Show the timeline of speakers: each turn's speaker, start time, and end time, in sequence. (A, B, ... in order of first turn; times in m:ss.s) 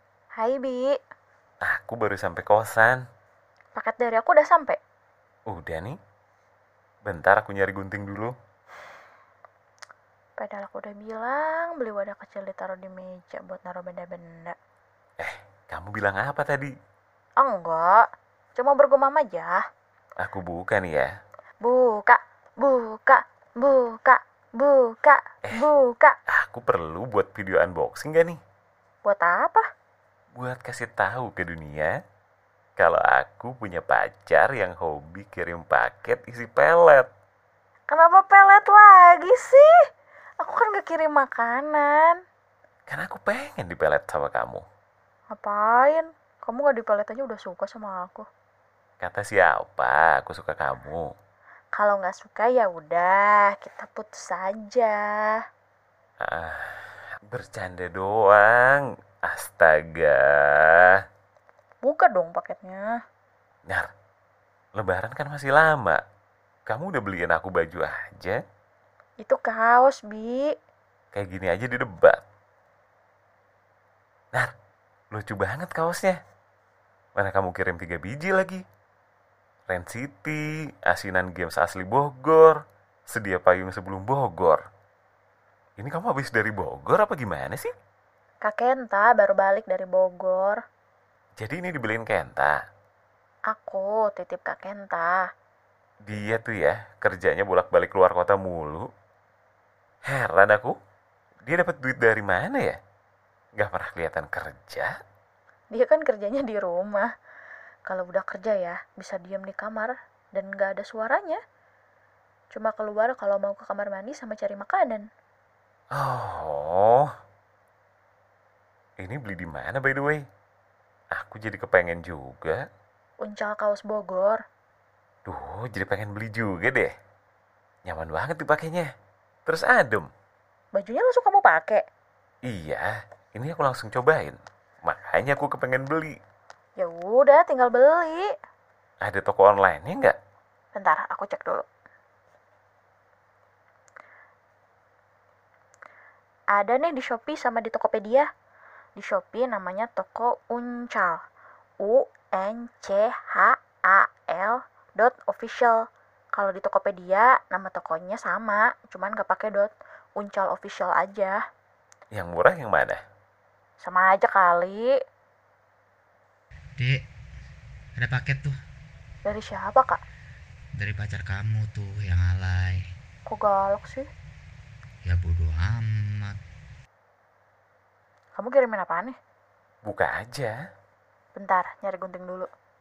0:00.4-0:00.9 A
0:01.6-0:03.0 B
0:03.8-0:04.8 A
0:05.5-0:06.0 B
0:07.1-0:08.3 B
0:10.4-0:14.6 A
0:15.2-0:16.7 B
0:17.4-0:18.0 A
0:18.6-0:19.6 A
0:20.2-0:21.1 B
0:21.6-0:26.2 A
0:26.3-0:28.4 B
0:29.0-0:29.6 A
0:30.4-0:32.0 B
0:32.8-0:37.1 B
0:37.9-0:39.7 A
0:40.4-0:42.2 A
0:42.9-0:44.6 B
0:45.3-0:48.3 A
0:49.0-0:51.2 B
0:51.8-0:55.4 A
0:56.2-1:01.0 B
1:01.8-1:02.9 A
1:04.8-1:06.0 B
1:06.7-1:08.4 B
1:09.2-1:10.5 A
1:11.1-1:12.2 B
1:15.1-1:16.2 B
1:17.2-1:18.6 B
1:19.7-1:22.6 B
1:23.1-1:24.6 B
1:25.8-1:27.7 B
1:28.4-1:30.6 A
1:31.4-1:32.6 B
1:33.5-1:35.2 A
1:36.1-1:38.9 B
1:40.1-1:40.7 B
1:41.5-1:42.8 B
1:43.6-1:44.9 B
1:45.7-1:47.1 A
1:47.9-1:51.4 A
1:52.5-1:55.1 A
1:55.9-1:57.1 B
1:59.0-2:00.2 B
2:01.1-2:02.6 B
2:03.2-2:04.4 A
2:05.3-2:06.9 B
2:07.9-2:08.9 B
2:09.5-2:10.1 B
2:10.7-2:11.8 A
2:12.4-2:16.2 B
2:16.8-2:18.3 A
2:19.0-2:20.2 B
2:20.7-2:21.7 A
2:26.5-2:28.3 A
2:29.0-2:31.2 A
2:31.8-2:35.8 A
2:36.4-2:41.4 A
2:42.1-2:43.0 B
2:43.8-2:44.9 A
2:46.8-2:47.0 C
2:48.0-2:48.6 C
2:49.2-2:50.0 A
2:50.8-2:52.9 C
2:53.3-2:54.1 A
2:55.0-2:56.4 C
2:58.4-2:59.2 A
2:59.8-3:00.6 B
3:01.4-3:02.5 A